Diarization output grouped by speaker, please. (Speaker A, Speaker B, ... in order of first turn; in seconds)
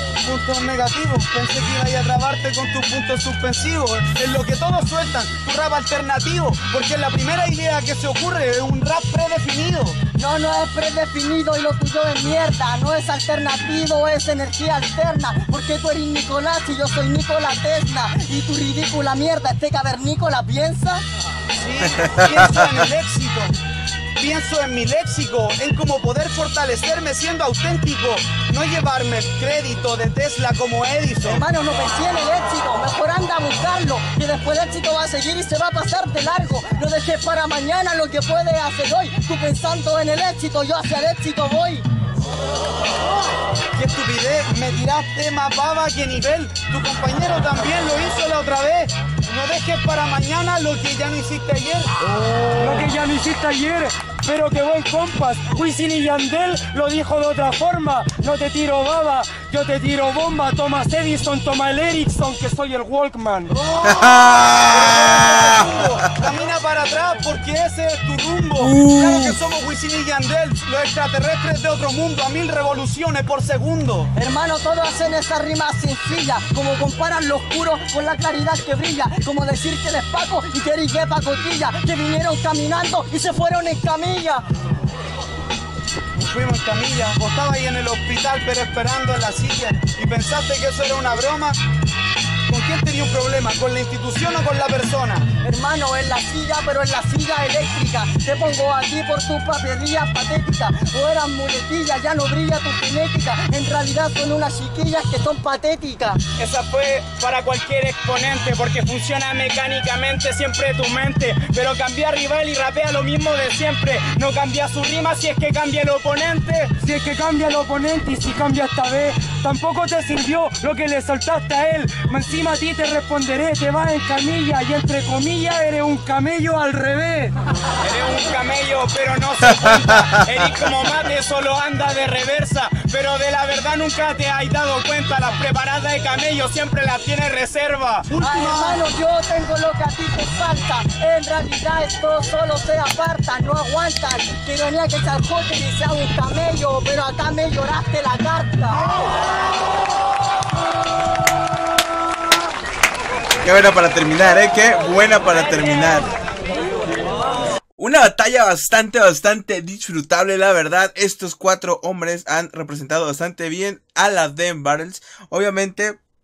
Speaker A: 0.2-10.0, 21.5-23.6, 24.2-31.4, 43.8-51.9, 64.7-74.1, 86.2-91.6, 92.5-95.3, 138.1-138.8
Speaker B: 10.2-21.1, 31.3-41.9, 74.2-84.5, 95.4-106.2, 138.2-149.0
Speaker C: 21.9-22.8, 63.8-66.1, 68.6-69.3, 129.9-130.6, 153.4-156.1, 157.8-166.0
Speaker D: 52.5-63.5, 116.8-127.3
Speaker E: 106.4-116.7, 127.8-138.1